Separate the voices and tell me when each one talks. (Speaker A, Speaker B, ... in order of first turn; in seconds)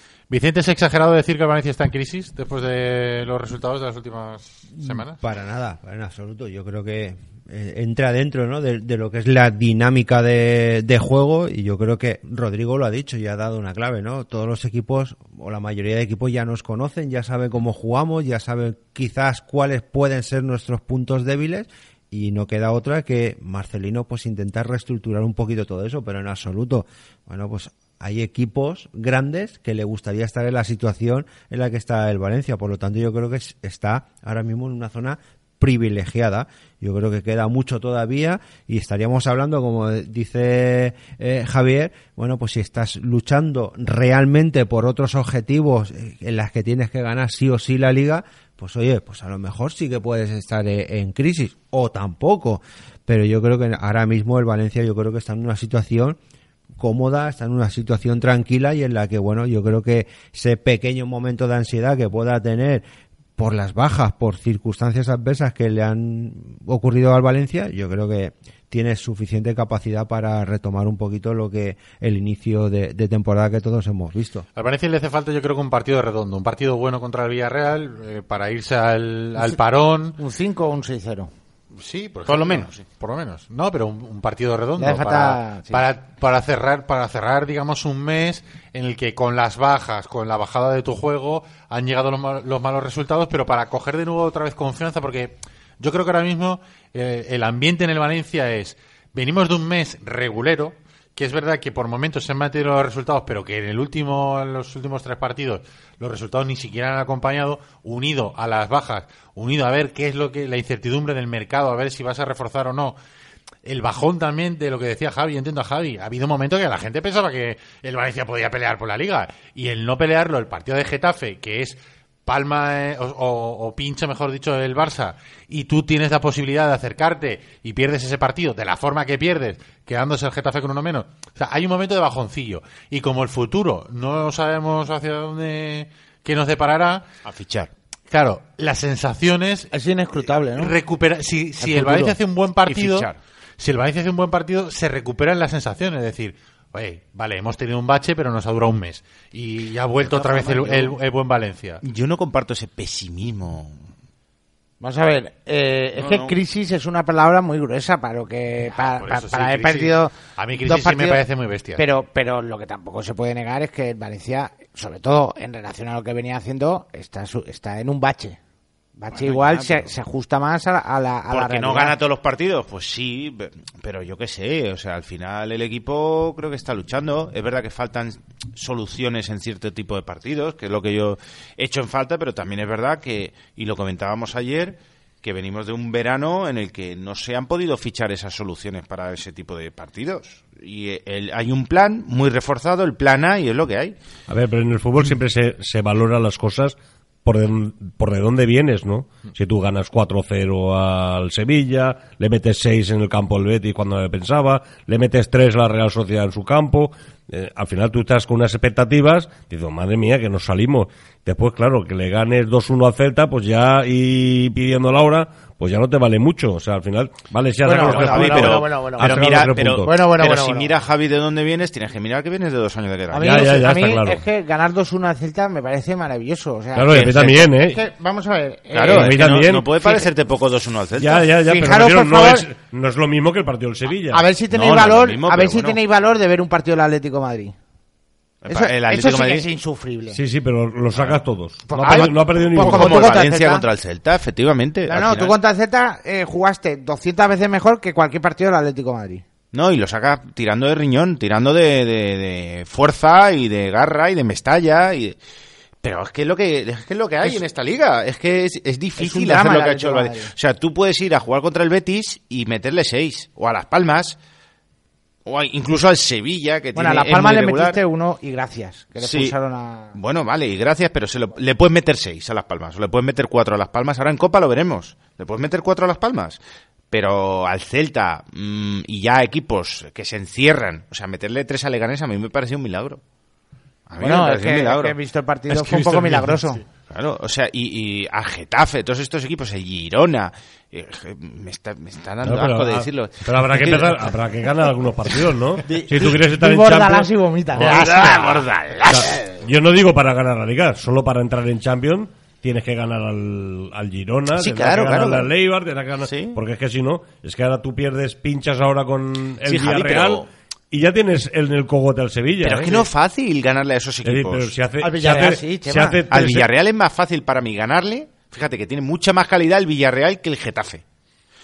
Speaker A: 0.3-5.2, 74.5-80.2, 81.8-113.0, 113.6-137.0, 138.1-139.7, 140.6-151.8, 158.8-161.8, 285.5-286.6
Speaker B: 4.8-56.2, 56.8-62.8, 63.4-74.5
Speaker C: 80.2-81.3, 84.8-85.8, 139.7-140.7, 141.6-142.1, 150.1-150.9, 154.8-161.2, 161.8-168.4, 169.0-171.9, 217.6-219.3, 219.8-220.7, 223.1-229.2, 231.3-232.5, 234.1-237.5, 238.5-240.2, 241.7-243.6, 244.9-249.2, 259.0-260.3, 266.7-269.9, 284.0-286.6, 295.7-299.2, 314.8-316.0
Speaker D: 82.3-82.8, 137.2-137.7, 142.7-143.2, 151.8-153.8, 155.9-156.4, 169.1-169.8, 171.3-193.9, 217.8-223.6, 228.7-231.3, 234.5-235.8, 238.4-239.5, 240.9-241.2, 241.8-245.3, 249.5-255.2, 255.8-264.2, 265.2-267.8, 269.0-269.3, 269.9-276.4, 276.9-283.0, 283.9-285.0, 286.9-294.1, 297.7-298.7, 304.3-305.3, 306.0-306.4, 309.4-310.3, 312.4-314.5, 316.1-320.8
Speaker E: 194.3-219.9, 223.2-224.2, 226.7-227.8, 228.9-229.9, 231.0-234.3, 240.1-243.1, 292.2-297.9, 298.9-312.9, 314.0-316.5